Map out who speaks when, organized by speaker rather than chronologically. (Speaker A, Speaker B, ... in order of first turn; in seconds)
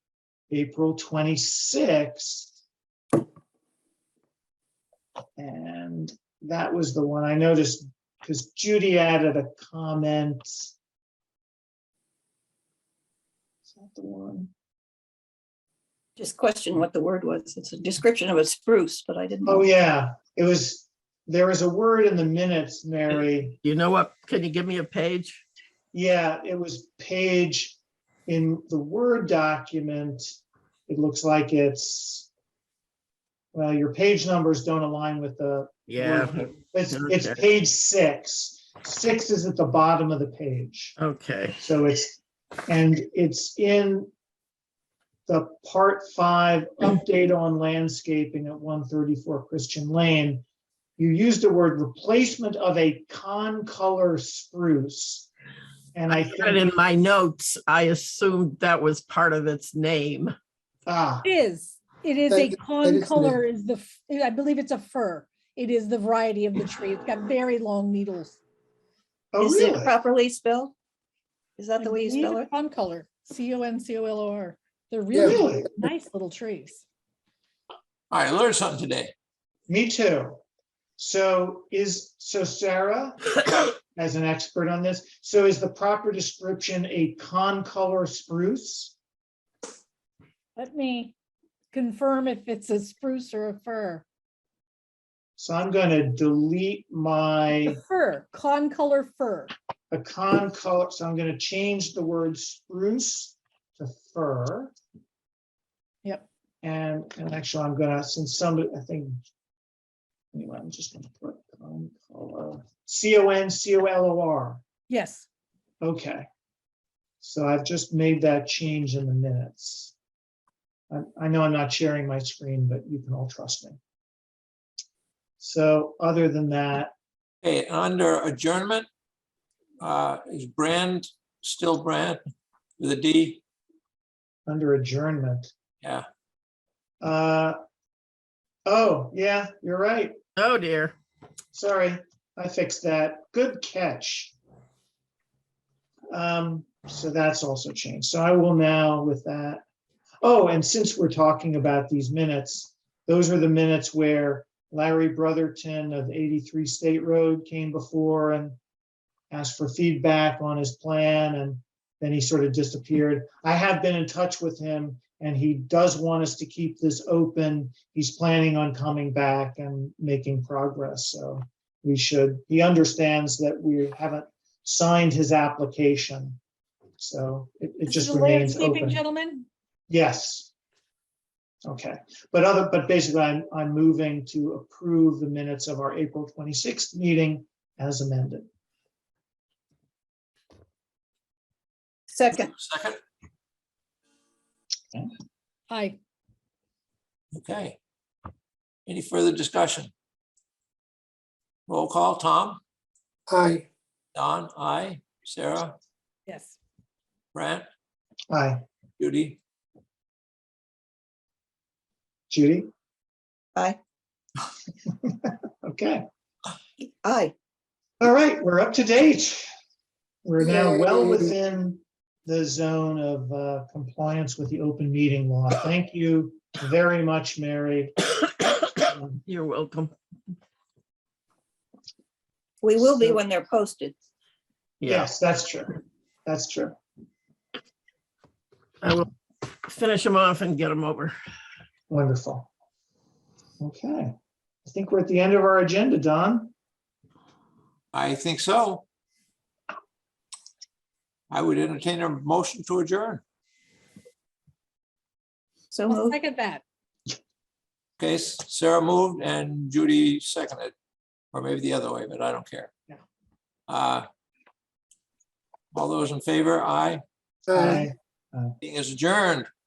Speaker A: 0.5-2.5, 5.4-10.7, 13.7-14.5, 19.4-23.6, 25.9-32.3, 33.5-41.0, 41.6-44.1, 45.3-50.4, 51.0-55.3, 55.9-56.7, 60.9-61.3, 69.3-70.0, 75.2-75.7, 79.7-80.4, 81.0-83.3, 83.9-88.9, 95.4-97.8, 99.9-104.7, 106.6-109.2, 110.3-114.6, 115.8-116.2, 117.2-119.9, 120.9-123.8, 125.4-126.9, 134.5-135.5, 137.0-137.6, 138.7-140.1, 141.5-144.3, 146.1-149.6, 150.2-158.6, 159.3-176.4, 177.0-179.0, 179.9-180.5, 181.6-188.5, 208.3-208.6, 212.3-212.7, 215.0-216.0, 218.0-219.5, 220.2-228.1, 228.9-229.2, 232.8-233.2, 234.8-236.8, 241.9-242.5, 243.6-244.1, 244.6-246.5, 267.5-268.5
Speaker B: 16.2-19.7, 69.4-70.7, 71.6-72.5, 192.1-192.5, 217.0-217.3, 232.6-233.9, 255.7-256.2
Speaker C: 23.6-25.4, 35.9-37.4, 41.0-41.6, 56.1-60.3, 140.3-140.9, 229.2-229.9, 234.8-235.1, 238.8-239.1, 239.6-241.1
Speaker D: 61.2-68.4, 71.8-76.8, 90.5-91.1, 91.7-94.0, 97.6-99.5, 114.9-115.2, 177.8-179.5, 195.7-196.0, 206.3-206.6, 255.9-256.6
Speaker E: 62.3-63.4, 75.1-75.7, 203.3-203.6, 267.5-267.9
Speaker F: 78.1-79.1, 127.4-128.9, 129.8-132.2, 132.8-133.4, 192.5-193.0, 197.3-197.8, 198.8-199.9, 201.7-202.6, 204.1-205.8, 207.3-207.7, 209.0-209.4, 247.9-248.8, 251.3-253.2, 258.0-260.7, 261.3-262.7, 263.7-264.1, 265.7-267.0, 268.6-269.5